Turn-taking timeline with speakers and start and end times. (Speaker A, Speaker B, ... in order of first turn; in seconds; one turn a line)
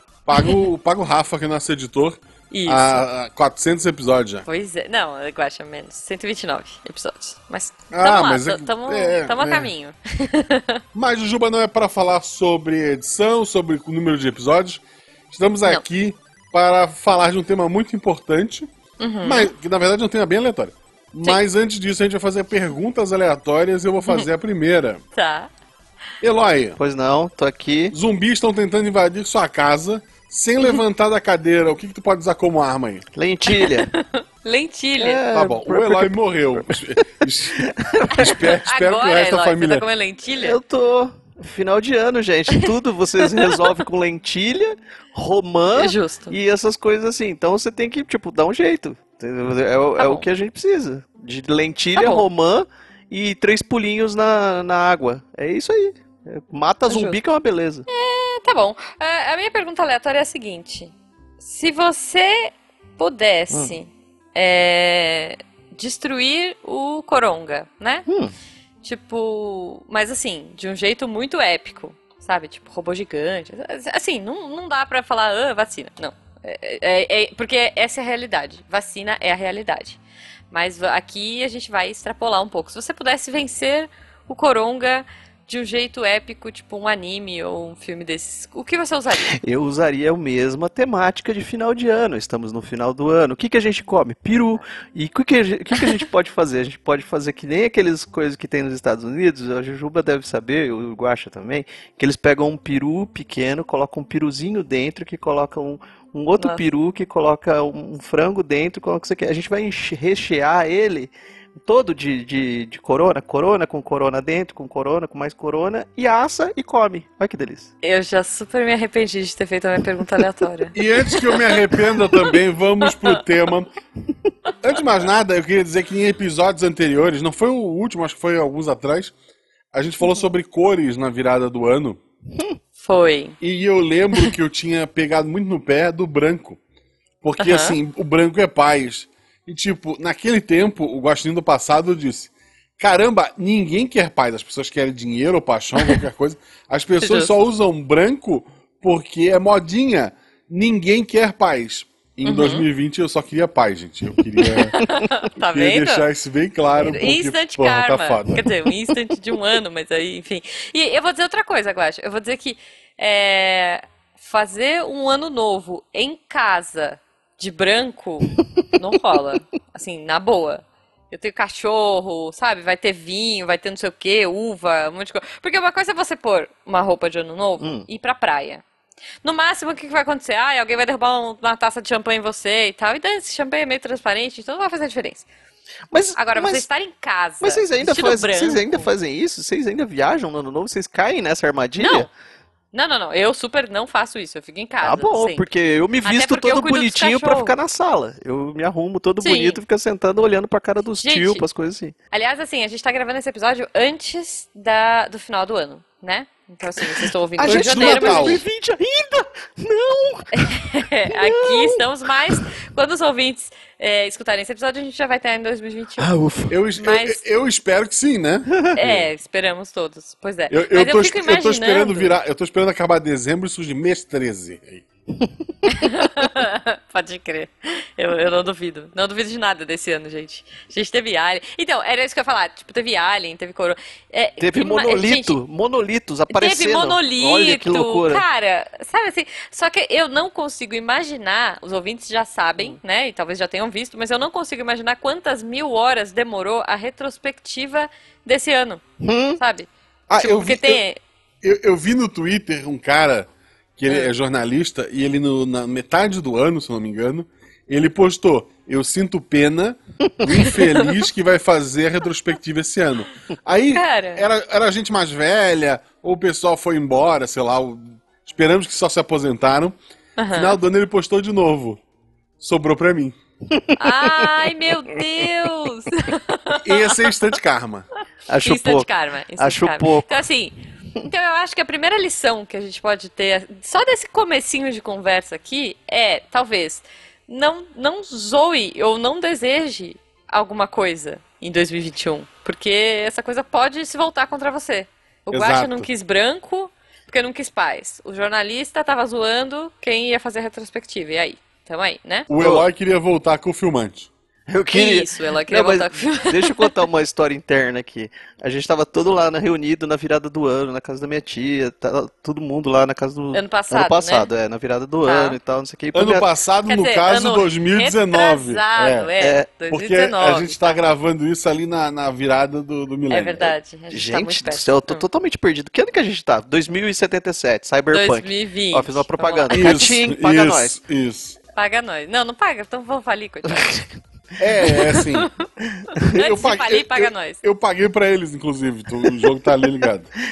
Speaker A: 0.2-4.4
Speaker B: 0.3-0.7
Speaker B: 2.5-3.0
Speaker B: 4.5-10.8
Speaker A: 7.9-9.7
Speaker A: 10.9-18.7
Speaker B: 19.0-19.5
Speaker A: 19.2-25.0
Speaker B: 25.1-25.5
Speaker A: 26.2-26.8
Speaker C: 26.8-27.9
Speaker A: 27.9-33.0
Speaker C: 33.1-33.9
Speaker B: 33.5-35.2
Speaker C: 35.0-36.8
Speaker A: 35.3-39.9
Speaker C: 37.5-38.5
Speaker B: 38.1-40.6
Speaker C: 40.4-57.9
Speaker B: 43.2-43.6
Speaker B: 45.8-46.4
Speaker B: 50.0-50.2
Speaker B: 51.9-52.2
Speaker B: 56.9-57.2
Speaker B: 57.9-68.1
Speaker C: 63.5-63.8
Speaker C: 68.1-68.3
Speaker B: 68.8-80.0
Speaker B: 80.5-89.3
Speaker C: 89.3-111.1
Speaker B: 106.4-106.6
Speaker C: 111.6-117.7
Speaker B: 117.8-123.2
Speaker A: 120.8-123.7
Speaker A: 124.6-129.1
Speaker A: 129.7-132.0
Speaker B: 132.8-133.4
Speaker A: 133.4-136.6
Speaker A: 137.2-154.8
Speaker B: 137.4-137.8
Speaker B: 147.0-147.3
Speaker B: 152.2-152.7
Speaker B: 154.4-156.1
Speaker A: 155.4-158.5
Speaker B: 156.8-178.6
Speaker C: 177.6-177.9
Speaker B: 179.2-185.3
Speaker C: 185.9-186.7
Speaker B: 186.2-188.9
Speaker C: 187.4-192.1
Speaker B: 191.8-192.1
Speaker B: 192.7-195.4
Speaker C: 194.8-201.9
Speaker B: 196.0-197.5
Speaker B: 199.2-199.6
Speaker B: 201.0-201.4
Speaker B: 202.1-208.4
Speaker C: 206.8-210.6
Speaker A: 207.4-208.4
Speaker B: 210.3-216.1
Speaker C: 211.1-212.4
Speaker C: 216.0-216.6
Speaker A: 216.5-219.1
Speaker B: 216.8-217.2
Speaker B: 218.8-222.1
Speaker A: 220.5-224.9
Speaker B: 225.7-235.4
Speaker C: 234.4-238.2
Speaker B: 236.3-248.8
Speaker C: 249.0-249.4
Speaker B: 249.4-251.0
Speaker A: 250.1-250.8
Speaker A: 251.4-269.8
Speaker B: 260.4-260.9
Speaker B: 263.8-264.2
Speaker B: 270.2-270.6
Speaker A: 270.3-271.8
Speaker A: 272.4-273.1
Speaker C: 273.5-274.3
Speaker B: 273.8-277.1
Speaker A: 276.5-277.9
Speaker C: 278.3-278.9
Speaker B: 278.4-280.5
Speaker C: 279.4-280.1
Speaker B: 281.1-302.3
Speaker A: 295.3-295.9
Speaker A: 302.3-304.1
Speaker C: 302.4-302.6
Speaker C: 304.5-316.3
Speaker B: 304.7-306.7
Speaker B: 313.3-314.3
Speaker B: 315.1-315.4
Speaker A: 315.9-319.1
Speaker B: 316.6-320.6
Speaker C: 319.2-319.5
Speaker A: 319.7-323.5
Speaker B: 323.1-325.0
Speaker C: 323.9-330.8
Speaker B: 327.9-329.8
Speaker A: 329.5-331.4
Speaker B: 331.5-333.9
Speaker C: 333.5-333.9
Speaker A: 334.4-335.3
Speaker B: 334.6-337.4
Speaker C: 335.8-336.1
Speaker A: 336.1-340.1